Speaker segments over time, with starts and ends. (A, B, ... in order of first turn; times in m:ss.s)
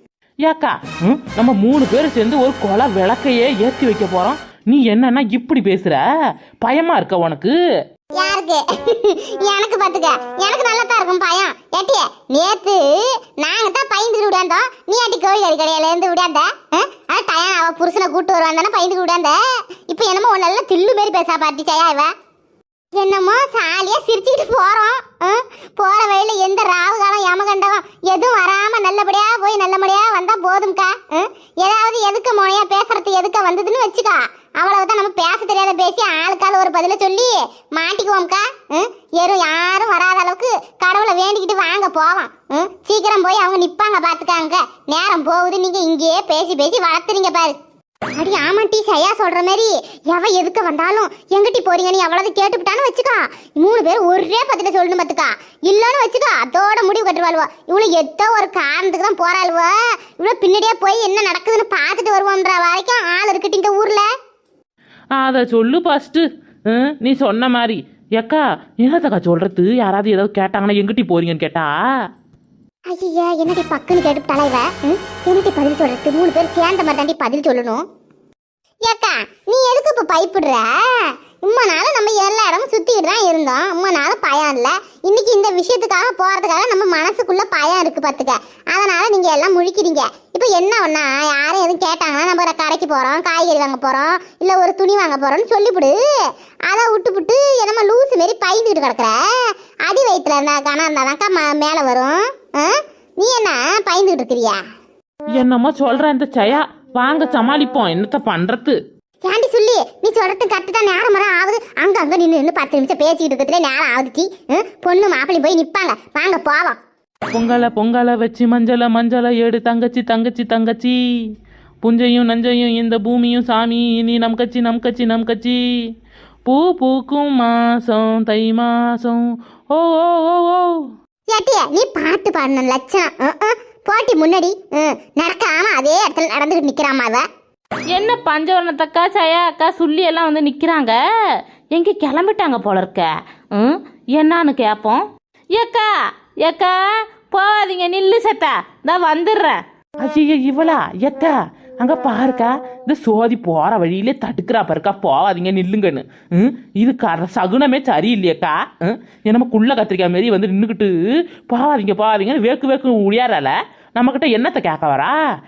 0:00.5-0:06.0 A
0:06.6-0:07.5 A
0:08.2-0:19.4 B
0:19.9-0:22.1 B
0:22.9-0:47.6 B
0:48.2-1:04.1 B
1:05.2-1:11.7 A
1:12.9-1:17.8 B
1:18.8-1:20.7 B
1:21.4-1:36.0 B
1:36.7-1:39.2 B
1:39.9-1:44.6 B
1:45.4-1:48.8 A
1:49.2-1:56.8 B
1:57.3-2:01.0 A
2:01.8-2:05.6 A
2:06.5-2:10.8 A
2:11.3-2:17.2 B
2:17.9-2:21.0 C
2:21.7-2:25.9 C
2:26.4-2:26.8 C
2:27.3-2:29.6 C
2:30.0-2:40.9 A
2:41.5-2:45.2 A